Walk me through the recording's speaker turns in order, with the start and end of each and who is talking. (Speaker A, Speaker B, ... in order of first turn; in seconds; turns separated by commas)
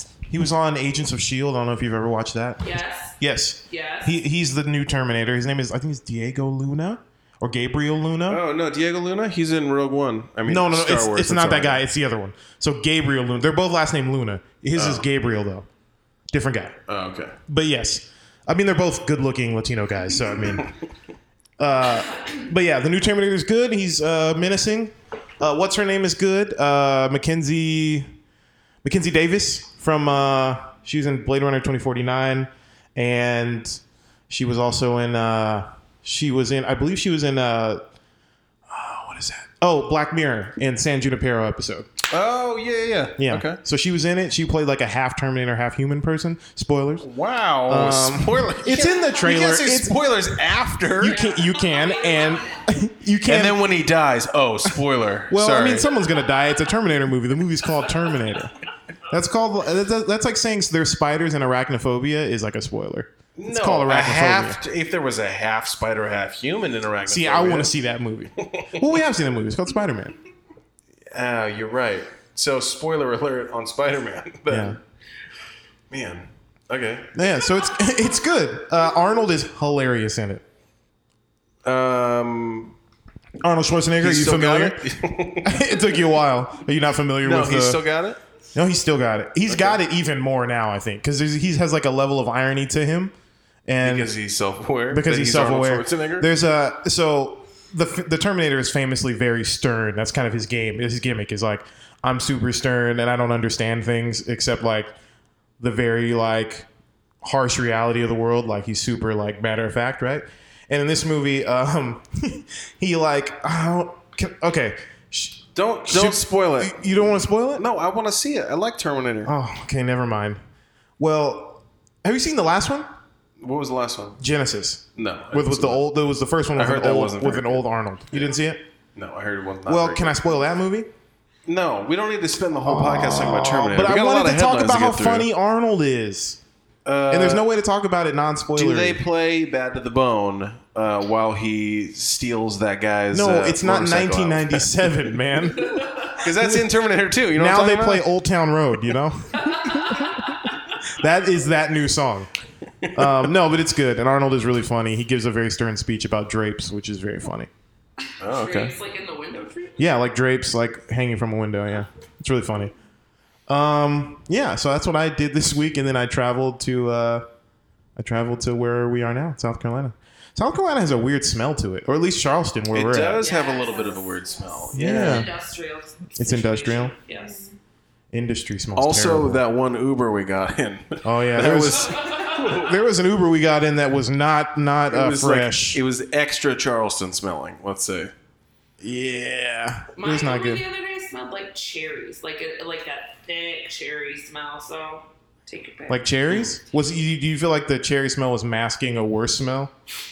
Speaker A: 0.3-8.4, Speaker B: 2.6-3.2, Speaker B: 3.7-4.2, Speaker C: 8.3-11.8, Speaker A: 10.4-15.7, Speaker C: 14.7-15.0, Speaker A: 16.3-16.8, Speaker C: 16.9-17.4, Speaker A: 17.5-20.7, Speaker A: 21.6-28.1, Speaker A: 28.8-37.8, Speaker C: 38.7-39.5, Speaker A: 39.6-41.9, Speaker C: 42.0-43.6, Speaker A: 43.2-47.0, Speaker C: 47.0-51.2, Speaker A: 47.7-49.9, Speaker A: 51.0-53.7, Speaker B: 51.0-52.6, Speaker C: 53.2-55.9, Speaker A: 55.3-58.5, Speaker A: 59.1-64.6, Speaker C: 63.4-67.7, Speaker A: 67.0-70.1, Speaker C: 68.4-68.8, Speaker C: 71.1-74.8, Speaker A: 74.5-74.8, Speaker C: 75.9-77.2, Speaker A: 77.1-80.4, Speaker C: 81.6-82.8, Speaker A: 83.4-84.8, Speaker C: 84.0-85.7, Speaker A: 85.4-87.8, Speaker C: 87.2-88.2, Speaker A: 88.5-93.1, Speaker C: 89.5-89.8, Speaker A: 93.7-94.1, Speaker C: 93.8-96.3, Speaker A: 94.9-104.9, Speaker A: 105.6-106.7, Speaker A: 107.2-117.6, Speaker C: 115.5-117.0, Speaker C: 117.5-119.3, Speaker A: 119.2-120.4, Speaker A: 121.0-122.9, Speaker C: 123.4-124.2, Speaker A: 124.2-128.6, Speaker C: 125.0-125.8, Speaker C: 126.5-127.6, Speaker C: 128.9-130.2, Speaker A: 129.7-130.9, Speaker C: 131.4-135.3, Speaker A: 132.6-136.4, Speaker C: 136.8-137.5, Speaker A: 137.1-139.0, Speaker C: 138.5-144.7, Speaker A: 143.1-146.6, Speaker C: 146.1-148.1, Speaker A: 147.3-152.3, Speaker B: 149.6-150.2, Speaker C: 152.8-153.1, Speaker A: 152.9-157.5, Speaker C: 158.2-158.7, Speaker B: 158.2-159.8, Speaker A: 159.8-162.7, Speaker A: 163.5-167.2, Speaker A: 167.9-173.2, Speaker C: 172.7-175.3, Speaker B: 173.2-177.5, Speaker A: 174.7-175.3, Speaker A: 176.2-176.9, Speaker A: 178.1-179.4, Speaker C: 178.8-182.8, Speaker A: 181.0-185.8, Speaker B: 181.9-182.4, Speaker C: 184.9-188.1, Speaker A: 188.8-190.6, Speaker B: 189.9-196.1, Speaker A: 195.9-199.7